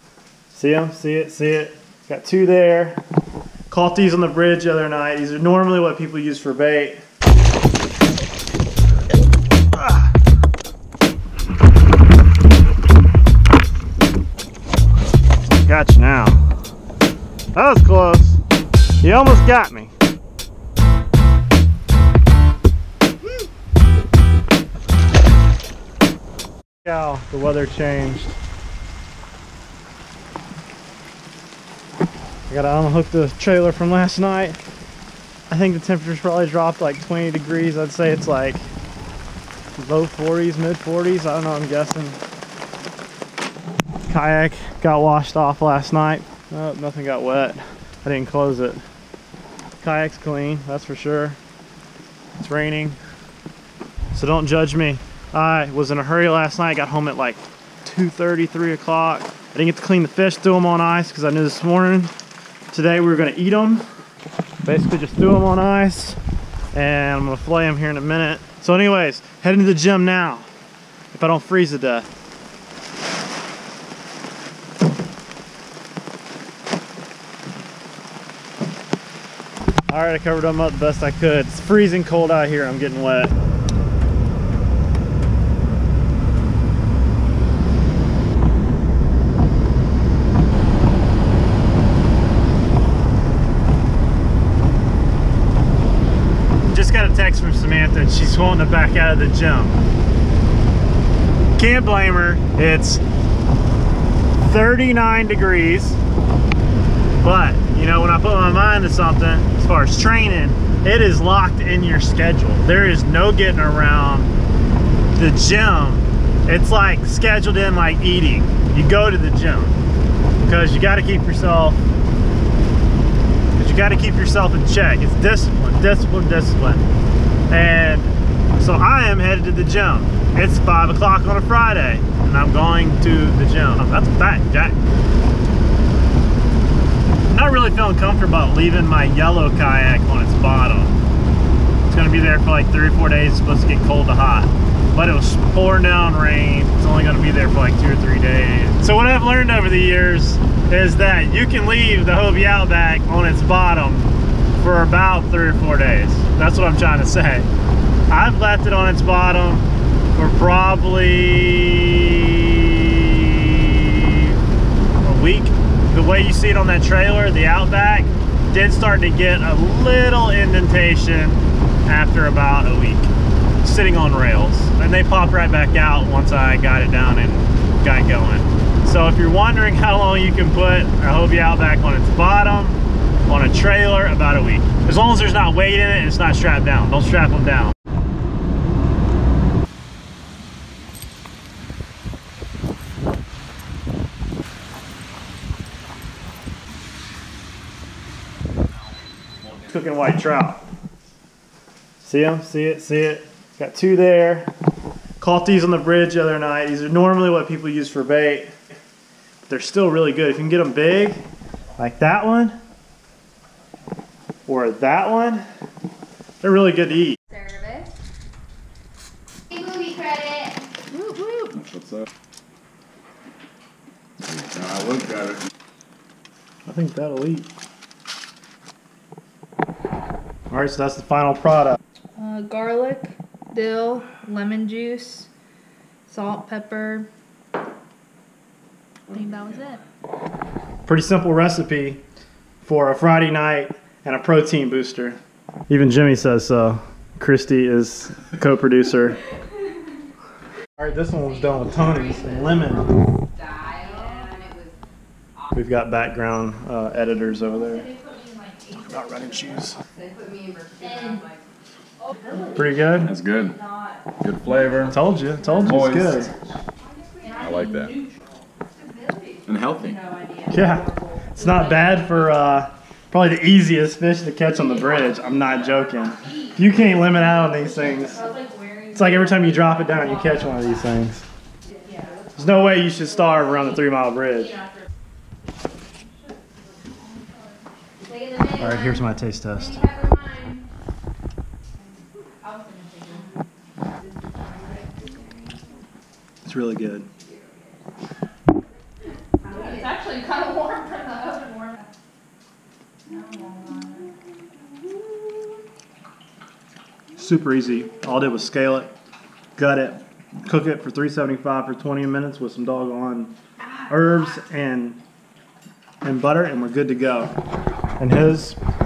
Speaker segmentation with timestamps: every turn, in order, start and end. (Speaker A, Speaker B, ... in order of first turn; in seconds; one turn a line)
Speaker A: 0.5-3.0
Speaker A: 3.7-7.0
Speaker A: 9.7-10.1
Speaker A: 15.7-16.4
Speaker A: 17.5-18.4
Speaker A: 19.0-19.9
Speaker A: 26.8-28.4
Speaker A: 32.5-34.6
Speaker A: 35.5-38.6
Speaker A: 39.8-42.2
Speaker A: 44.1-48.8
Speaker A: 49.8-51.4
Speaker A: 52.4-53.0
Speaker A: 54.1-62.1
Speaker A: 62.7-63.9
Speaker A: 64.6-66.2
Speaker A: 66.7-70.5
Speaker A: 71.1-72.1
Speaker A: 79.9-83.3
Speaker A: 96.7-99.8
Speaker A: 101.5-103.0
Speaker A: 104.4-106.0
Speaker A: 107.2-114.3
Speaker A: 115.1-119.8
Speaker A: 120.4-121.8
Speaker A: 123.6-126.8
Speaker A: 127.5-134.8
Speaker A: 137.3-140.9
Speaker A: 141.9-157.5
Speaker A: 158.1-164.3
Speaker A: 165.0-173.1
Speaker A: 173.6-187.7
Speaker A: 199.6-200.6
Speaker A: 202.0-204.5
Speaker A: 205.2-208.5
Speaker A: 209.5-211.2
Speaker A: 211.8-212.6
Speaker A: 214.4-215.4
Speaker A: 216.4-217.2
Speaker B: 217.3-217.9
Speaker B: 219.5-220.6
Speaker C: 221.6-222.0
Speaker C: 224.3-225.4
Speaker A: 226.7-227.5
Speaker A: 230.5-231.8
Speaker D: 232.2-235.3
Speaker D: 236.1-237.1
Speaker D: 239.1-239.8
Speaker A: 240.8-242.0
Speaker A: 242.6-245.2
Speaker A: 245.7-249.2
Speaker A: 250.8-252.9
Speaker B: 251.2-254.8
Speaker D: 253.6-254.5
Speaker A: 255.5-257.9
Speaker D: 257.4-259.6
Speaker A: 258.8-259.8
Speaker B: 259.9-261.5
Speaker D: 260.8-261.2
Speaker D: 262.0-262.8
Speaker A: 262.5-263.1
Speaker C: 263.0-263.6
Speaker D: 263.4-272.5
Speaker C: 264.2-265.0
Speaker A: 264.9-266.3
Speaker C: 265.6-266.3
Speaker B: 267.1-267.7
Speaker C: 267.4-268.0
Speaker C: 269.4-270.1
Speaker A: 270.5-278.2
Speaker D: 274.6-281.0
Speaker B: 277.7-278.2
Speaker A: 278.9-281.2
Speaker D: 281.6-282.4
Speaker B: 281.8-282.2
Speaker A: 282.3-284.6
Speaker D: 283.2-283.7
Speaker D: 286.2-287.7
Speaker B: 288.0-290.7
Speaker A: 288.5-289.8
Speaker D: 291.8-293.4
Speaker B: 293.1-293.4
Speaker D: 294.0-295.1
Speaker B: 294.0-295.6
Speaker A: 296.4-297.1
Speaker B: 297.1-297.9
Speaker B: 299.4-300.0
Speaker D: 299.4-301.9
Speaker D: 303.1-304.1
Speaker A: 307.2-308.9
Speaker A: 309.6-313.3
Speaker A: 313.9-315.0
Speaker A: 316.0-317.3
Speaker A: 318.0-318.6